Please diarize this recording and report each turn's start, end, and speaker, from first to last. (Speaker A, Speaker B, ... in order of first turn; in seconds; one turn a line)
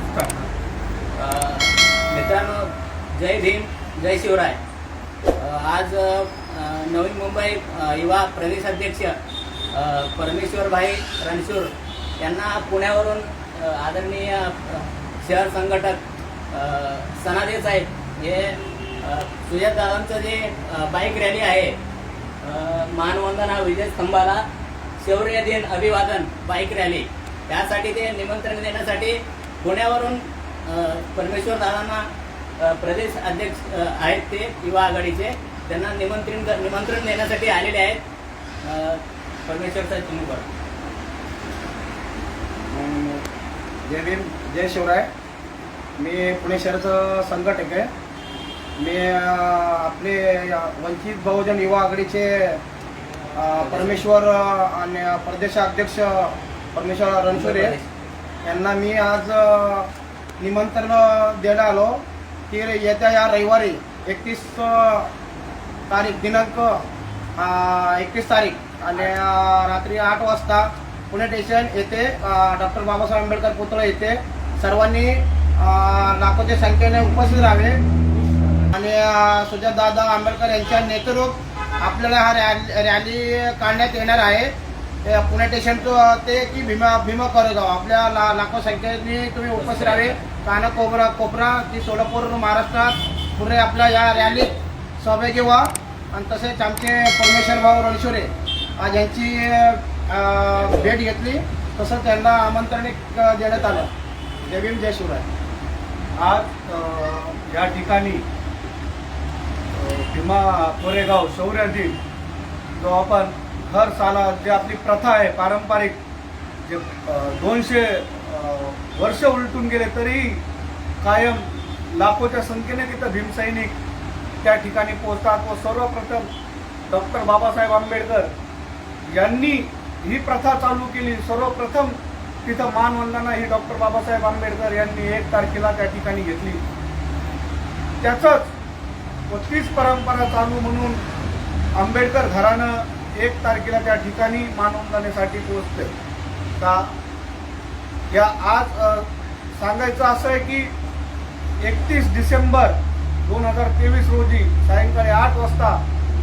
Speaker A: 1.1-4.6
Speaker A: 5.3-9.1
Speaker A: 9.7-21.8
Speaker A: 22.4-24.4
Speaker A: 25.0-32.0
Speaker A: 32.6-38.0
Speaker A: 38.6-40.5
Speaker B: 42.7-43.2
Speaker B: 43.9-45.1
Speaker B: 46.0-47.9
Speaker B: 48.8-52.6
Speaker B: 53.3-57.8
Speaker A: 53.5-54.0
Speaker A: 57.3-57.9
Speaker B: 58.4-59.9
Speaker B: 60.4-65.1
Speaker B: 65.9-66.8
Speaker B: 67.4-77.8
Speaker B: 78.7-84.5
Speaker B: 85.0-103.9
Speaker A: 89.5-90.2
Speaker A: 100.5-100.9
Speaker A: 103.5-103.9
Speaker B: 104.4-105.3
Speaker C: 106.2-108.2
Speaker C: 109.7-112.0
Speaker C: 112.8-116.0
Speaker C: 116.6-120.4
Speaker C: 121.0-123.8
Speaker C: 124.4-126.3
Speaker C: 126.9-128.3
Speaker C: 129.1-136.6
Speaker C: 138.0-138.5
Speaker C: 139.3-141.0
Speaker C: 141.8-145.9
Speaker C: 146.6-146.9
Speaker C: 148.1-150.7
Speaker C: 151.6-155.8